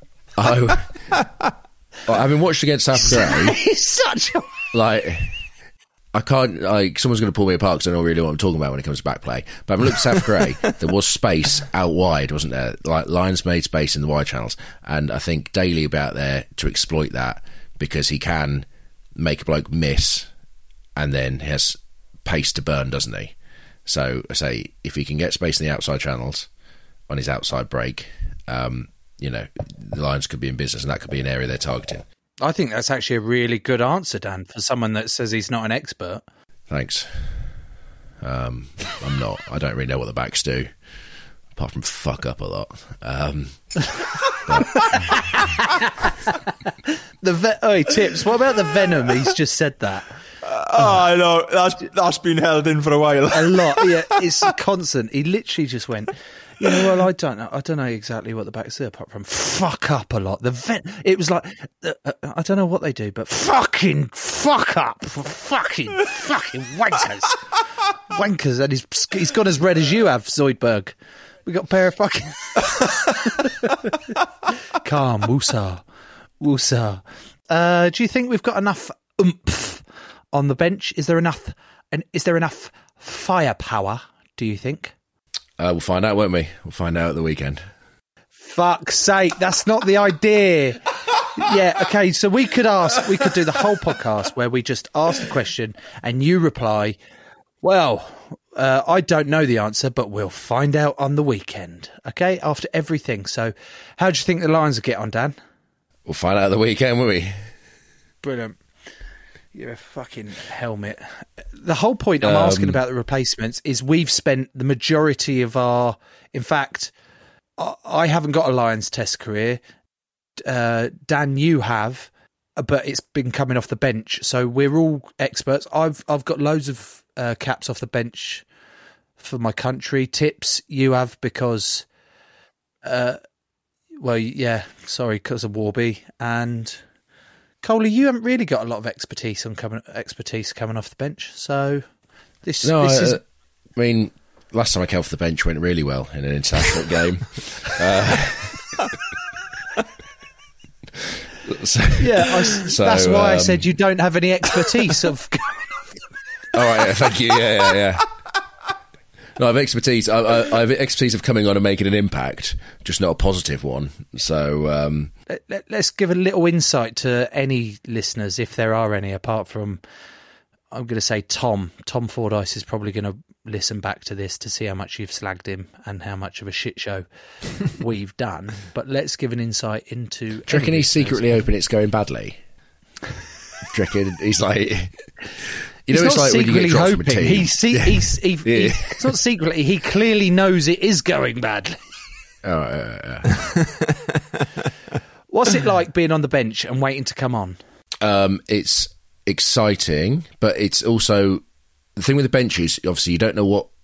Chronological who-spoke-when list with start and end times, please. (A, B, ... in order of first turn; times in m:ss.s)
0:00.4-0:01.2 A
0:02.1-0:03.6 A
0:03.0-0:04.5 B
0:04.7-0:05.4 A
0:06.1-0:20.3 A
0:21.0-0:23.3 A
0:23.9-0:26.5 A
0:27.1-0:32.0 A
0:32.4-0:36.2 B
0:36.7-0:37.5 A
0:38.2-0:40.7 A
0:41.6-0:43.9 A
0:44.4-0:45.2 A
0:44.8-0:46.7 B
0:47.2-0:50.2 B
0:50.4-0:53.9 C
0:53.3-1:07.4 B
1:08.1-1:13.8 B
1:14.8-1:15.8 B
1:16.4-1:25.0 B
1:25.6-1:27.6 A
1:28.4-1:37.0 B
1:37.6-1:45.4 B
1:46.1-1:47.4 A
1:48.2-1:48.6 B
1:49.5-1:56.9 B
1:52.2-1:52.8 A
1:57.6-1:59.6 B
2:00.4-2:08.4 B
2:09.2-2:11.9 B
2:12.8-2:13.2 B
2:14.0-2:16.8 B
2:17.6-2:21.8 B
2:22.4-2:23.2 B
2:22.6-2:23.2 A
2:23.7-2:28.8 A
2:31.4-2:33.7 A
2:32.0-2:35.6 B
2:36.5-2:38.1 A
2:39.4-2:45.1 A
2:45.3-2:49.8 B
2:50.7-2:57.1 B
2:57.6-3:01.4 B
3:00.5-3:02.4 A
3:03.7-3:05.1 A
3:05.9-3:09.1 A
3:05.9-3:11.8 B
3:12.4-3:13.4 A
3:13.4-3:14.4 C
3:15.3-3:17.6 B
3:18.0-3:21.4 A
3:22.0-3:23.7 A